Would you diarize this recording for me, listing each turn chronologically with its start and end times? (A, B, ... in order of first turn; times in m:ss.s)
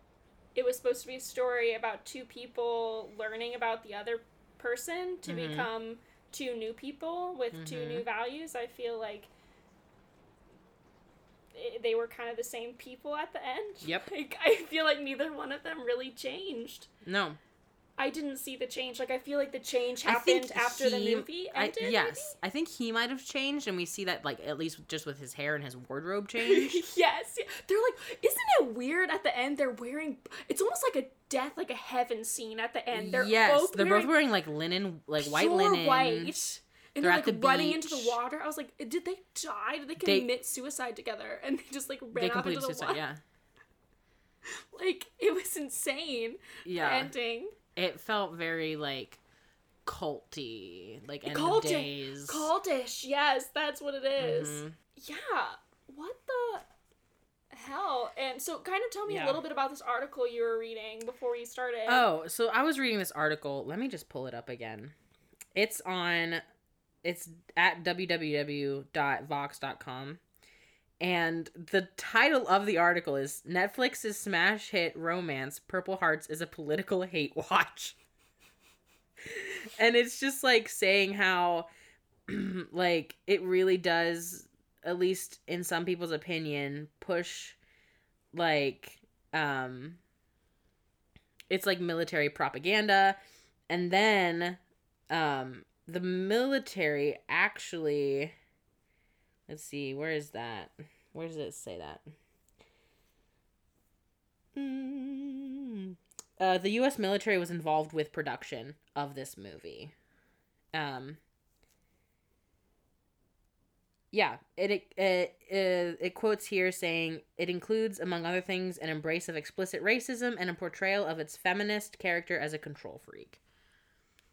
0:00.6-0:09.3 A
0:05.2-0:05.7 B
0:07.5-0:08.1 B
0:11.5-0:16.9 A
0:13.8-0:14.1 B
0:17.0-0:17.4 B
0:18.0-0:22.4 A
0:20.0-0:26.8 B
0:26.4-0:34.2 A
0:32.9-0:36.4 B
0:35.2-0:43.0 A
0:37.0-0:38.2 B
0:40.0-0:40.3 B
0:42.1-0:43.2 B
0:44.5-0:47.6 A
0:46.6-0:47.1 B
0:47.8-0:49.2 B
0:49.8-0:52.5 B
0:51.3-0:56.7 A
0:54.2-0:54.8 B
0:57.5-1:02.1 A
0:59.1-0:59.4 B
1:01.9-1:05.0 B
1:05.5-1:06.4 B
1:07.0-1:10.2 B
1:11.0-1:18.0 B
1:19.2-1:21.7 B
1:22.3-1:27.6 B
1:28.3-1:30.0 B
1:31.5-1:33.2 B
1:33.7-1:38.3 B
1:39.5-1:42.0 B
1:44.6-1:49.9 B
1:50.7-1:51.2 B
1:54.1-2:03.4 B